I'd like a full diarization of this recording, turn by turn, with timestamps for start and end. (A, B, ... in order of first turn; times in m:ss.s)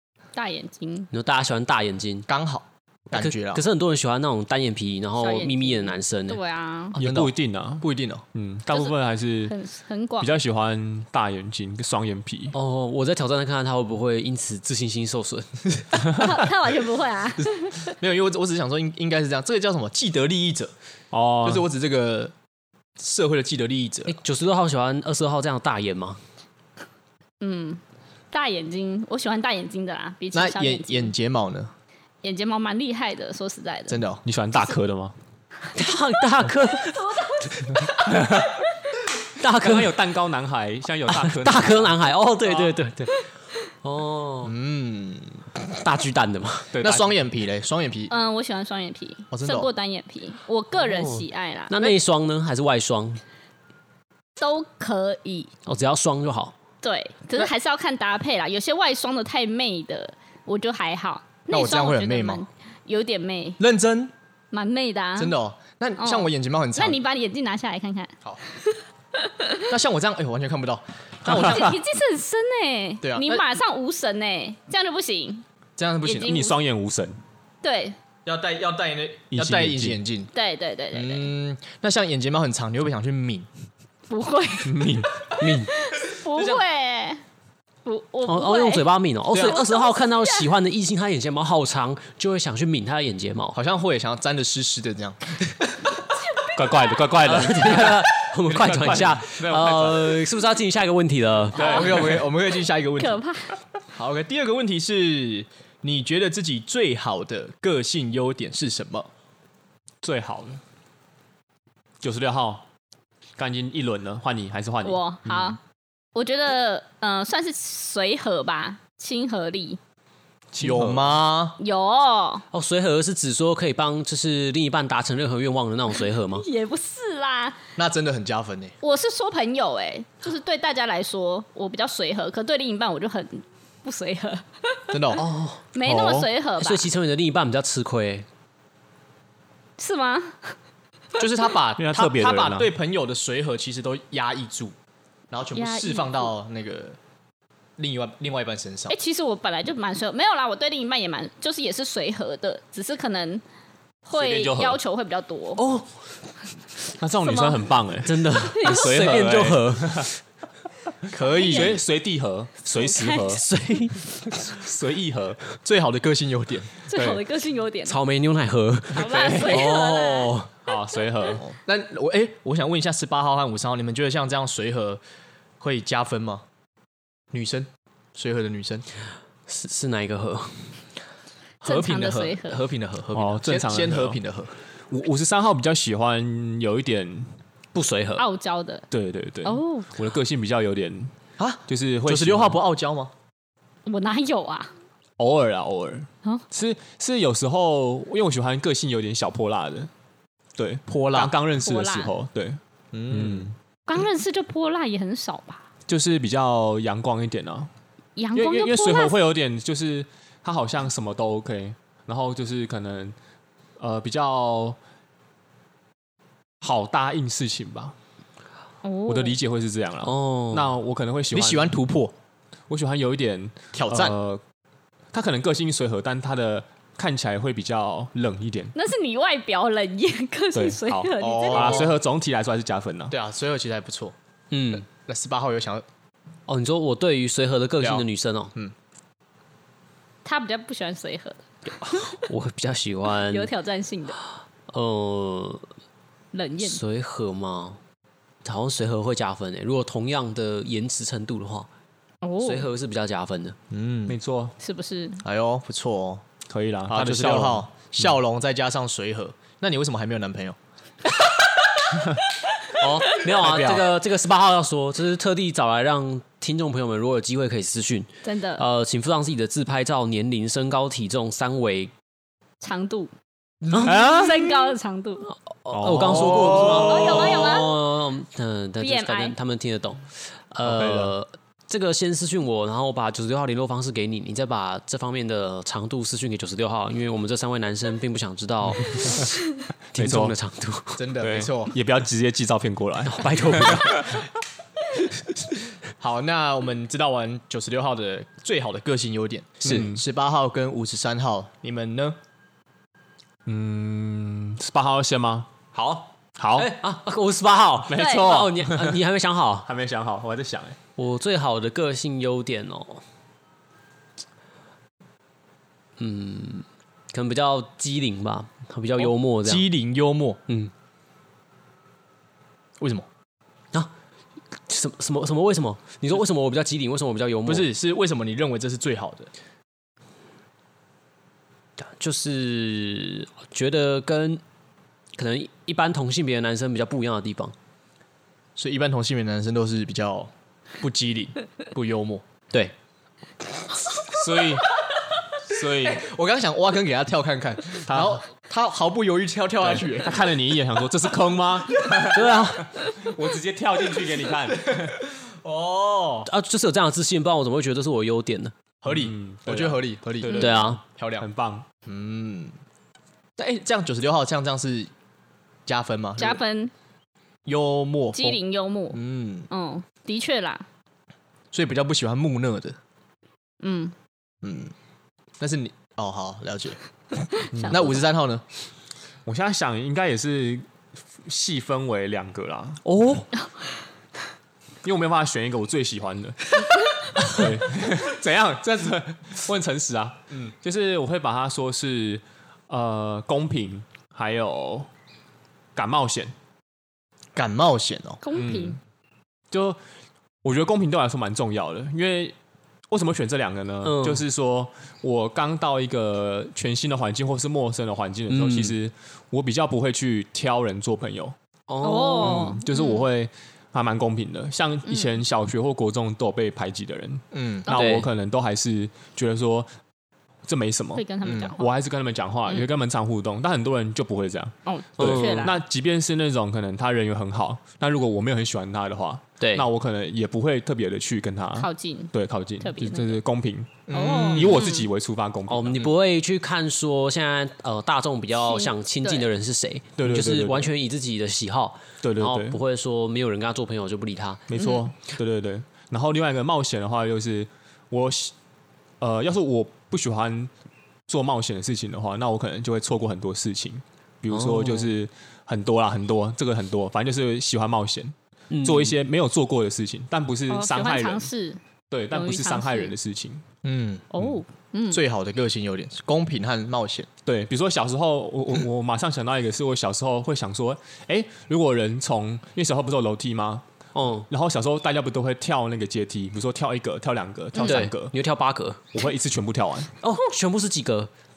0:00.4-0:01.1 A
0:01.1-0:02.3 B
0:02.3-0:03.6 C
0:03.1-0:06.4 B
0:05.2-0:07.0 A
0:06.9-0:09.5 D
0:07.0-0:08.2 C
0:09.4-0:10.3 A
0:10.2-0:12.5 D
0:12.5-0:15.8 B
0:16.1-0:17.8 A
0:17.8-0:20.7 C
0:21.1-0:21.6 D
0:21.4-0:22.3 C
0:23.0-0:24.2 C
0:24.0-0:26.2 B
0:27.4-0:31.1 A
0:30.3-0:31.7 C
0:32.2-0:34.0 A
0:33.9-0:34.2 C
0:34.2-0:35.2 D
0:35.7-0:37.9 B
0:36.9-0:37.8 A
0:38.1-0:38.5 D
0:39.4-0:40.0 B
0:39.6-0:41.9 D
0:41.1-0:44.5 B
0:44.4-0:45.6 C
0:45.8-0:46.7 B
0:46.7-0:47.1 D
0:46.8-0:48.1 C
0:48.1-0:52.0 A
0:49.3-0:49.7 C
0:50.8-0:53.2 B
0:54.4-0:55.5 A
0:55.6-0:56.5 B
0:56.8-1:03.6 A
1:01.5-1:02.4 C
1:03.6-1:04.1 C
1:04.5-1:05.3 A
1:05.2-1:07.0 C
1:06.0-1:09.5 A
1:09.6-1:11.8 C
1:11.2-1:11.8 D
1:11.4-1:15.4 A
1:13.0-1:13.4 C
1:15.8-1:16.4 C
1:16.0-1:16.6 A
1:16.2-1:17.2 D
1:17.6-1:18.0 A
1:18.2-1:20.3 C
1:19.3-1:20.0 D
1:20.3-1:21.3 A
1:20.9-1:23.5 C
1:24.1-1:24.8 A
1:24.6-1:25.1 D
1:25.4-1:25.7 B
1:25.7-1:27.2 A
1:26.3-1:26.6 C
1:27.8-1:30.5 A
1:28.2-1:33.6 B
1:29.3-1:29.6 C
1:33.5-1:35.8 C
1:36.5-1:40.2 D
1:37.2-1:41.8 B
1:41.5-1:42.2 D
1:41.5-1:43.2 C
1:41.6-1:41.9 A
1:43.0-1:43.5 A
1:43.9-1:49.1 C
1:50.0-1:50.6 D
1:52.0-1:52.6 D
1:53.4-1:55.6 D
1:54.8-1:55.6 A
1:56.1-1:59.8 A
2:00.5-2:01.1 D
2:00.6-2:01.6 C
2:01.6-2:02.4 A
2:02.5-2:06.4 B
2:06.3-2:07.6 A
2:07.8-2:08.7 C
2:08.8-2:15.2 A
2:14.9-2:15.2 C
2:15.2-2:15.7 B
2:15.7-2:16.9 A
2:15.8-2:16.3 D
2:16.6-2:18.3 B
2:19.8-2:20.6 A
2:21.1-2:24.7 C
2:21.8-2:22.7 D
2:25.3-2:27.0 C
2:25.5-2:26.3 A
2:27.8-2:29.0 C
2:28.9-2:33.4 A
2:34.0-2:35.6 A
2:34.1-2:34.8 D
2:35.6-2:35.9 B
2:37.0-2:40.1 D
2:37.2-2:37.7 A
2:38.0-2:40.2 B
2:38.4-2:39.1 A
2:41.1-2:41.8 C
2:41.3-2:41.8 A
2:41.4-2:43.4 D
2:42.7-2:44.5 B
2:44.4-2:45.4 D
2:45.6-2:46.7 C
2:46.8-2:48.0 A
2:46.9-2:47.2 D
2:47.8-2:50.5 B
2:48.9-2:50.4 A
2:48.9-2:49.7 D
2:50.7-2:51.4 D
2:51.4-2:55.0 C
2:55.6-2:56.4 C
2:57.3-2:58.8 C
2:59.5-3:00.8 B
3:01.6-3:02.6 A
3:01.6-3:04.6 C
3:03.1-3:04.2 D
3:04.9-3:07.4 D
3:07.7-3:08.2 B
3:08.2-3:08.8 A
3:08.9-3:11.1 D
3:09.4-3:09.9 A
3:11.4-3:13.1 C
3:11.7-3:12.6 D
3:13.8-3:14.7 A
3:15.2-3:19.9 D
3:20.6-3:23.6 D
3:20.9-3:21.4 C
3:21.6-3:22.1 A
3:22.9-3:23.5 C
3:23.9-3:25.6 A
3:25.9-3:27.7 D
3:28.2-3:29.2 A
3:28.3-3:33.2 D
3:33.8-3:34.8 D
3:36.6-3:37.9 D
3:38.8-3:39.4 A
3:39.1-3:41.7 D
3:40.0-3:40.8 B
3:41.3-3:42.1 C
3:42.7-3:44.4 D
3:43.7-3:44.1 C
3:45.1-3:48.7 D
3:48.7-3:51.9 A
3:50.5-3:53.1 D
3:51.2-3:51.9 C
3:53.1-3:54.1 C
3:54.5-3:54.9 B
3:54.9-3:55.8 C
3:56.5-3:58.5 B
3:57.8-3:58.7 C
4:00.2-4:01.4 A
4:01.8-4:03.5 B
4:03.3-4:04.2 A
4:04.7-4:05.6 B
4:06.3-4:06.8 A
4:06.6-4:07.8 B
4:08.4-4:11.7 B
4:12.2-4:12.7 A
4:12.4-4:13.6 B
4:13.7-4:14.2 C
4:14.1-4:14.5 D
4:14.6-4:15.2 A
4:15.2-4:16.2 C
4:16.5-4:18.1 D
4:16.9-4:20.6 C
4:22.8-4:31.9 B
4:23.4-4:23.8 D
4:28.2-4:28.6 A
4:32.6-4:33.1 A
4:33.7-4:35.3 A
4:33.8-4:34.6 D
4:35.6-4:49.3 B
4:35.7-4:37.4 D
4:36.5-4:37.8 A
4:38.8-4:39.3 A
4:40.6-4:41.1 D
4:49.9-4:50.4 D
4:49.9-4:51.0 B
4:51.0-4:51.7 C
4:51.2-4:54.2 D
4:53.0-4:54.2 B
4:56.0-5:02.2 C
4:59.6-5:00.0 D
5:03.4-5:05.5 D
5:05.7-5:09.7 B
5:06.4-5:06.7 D
5:07.9-5:09.0 D
5:08.0-5:08.3 A
5:09.6-5:10.8 D
5:11.0-5:13.0 B
5:16.0-5:19.7 B
5:19.0-5:20.4 C
5:22.8-5:23.1 C
5:24.7-5:27.7 B
5:27.4-5:29.3 C
5:32.0-5:34.4 B
5:35.2-5:37.5 B
5:38.6-5:42.2 C
5:44.0-5:44.7 D
5:45.4-5:46.0 D
5:45.8-5:50.2 C
5:47.9-5:48.2 D
5:49.6-5:54.9 D
5:52.1-5:52.7 B
5:55.4-5:56.3 C
5:56.2-5:58.5 B
5:58.8-6:01.3 C
5:58.9-6:01.7 D
6:00.2-6:00.8 B
6:01.8-6:02.5 C
6:03.4-6:04.9 C
6:05.6-6:06.4 C
6:06.2-6:06.7 A
6:07.4-6:08.4 C
6:08.1-6:09.0 A
6:08.9-6:09.5 C
6:09.5-6:10.6 A
6:11.5-6:12.8 C
6:13.6-6:13.9 A
6:14.4-6:14.7 C
6:15.4-6:16.8 C
6:17.5-6:18.0 A
6:17.5-6:17.9 D
6:17.6-6:18.4 C
6:19.2-6:20.7 D
6:21.2-6:22.8 D
6:22.8-6:23.3 B
6:24.8-6:26.6 D
6:27.2-6:34.9 D
6:35.8-6:36.3 D
6:37.4-6:38.2 C
6:38.2-6:38.8 A
6:38.3-6:38.8 D
6:39.5-6:39.8 D
6:40.4-6:42.3 D
6:42.9-6:51.3 D
6:43.8-6:44.2 B
6:48.3-6:48.8 B
6:51.7-6:52.5 B
6:51.8-6:53.0 A
6:52.2-6:59.7 D
6:54.9-6:55.1 A
6:57.3-6:57.7 C
6:57.7-6:58.1 B
7:00.5-7:01.0 D
7:00.9-7:01.7 A
7:01.2-7:01.5 C
7:01.5-7:15.9 D
7:04.6-7:05.6 A
7:05.0-7:05.5 B
7:09.4-7:09.7 B
7:11.6-7:13.2 A
7:13.9-7:14.5 C
7:13.9-7:14.9 A
7:15.5-7:24.4 B
7:18.3-7:19.3 A
7:20.0-7:20.7 D
7:22.0-7:22.6 D
7:24.5-7:28.3 D
7:24.5-7:24.9 A
7:29.0-7:30.5 D
7:31.1-7:41.3 D
7:34.3-7:34.9 B
7:38.5-7:38.9 B
7:40.5-7:41.6 A
7:41.9-7:43.4 D
7:42.1-7:42.9 A
7:43.6-7:44.0 C
7:44.1-7:45.0 A
7:44.9-7:47.1 C
7:47.2-7:53.6 D
7:53.9-7:54.3 B
7:54.3-7:58.1 D
7:57.6-7:57.9 A
7:57.6-7:58.9 B
7:58.9-7:59.9 D
8:00.0-8:01.1 B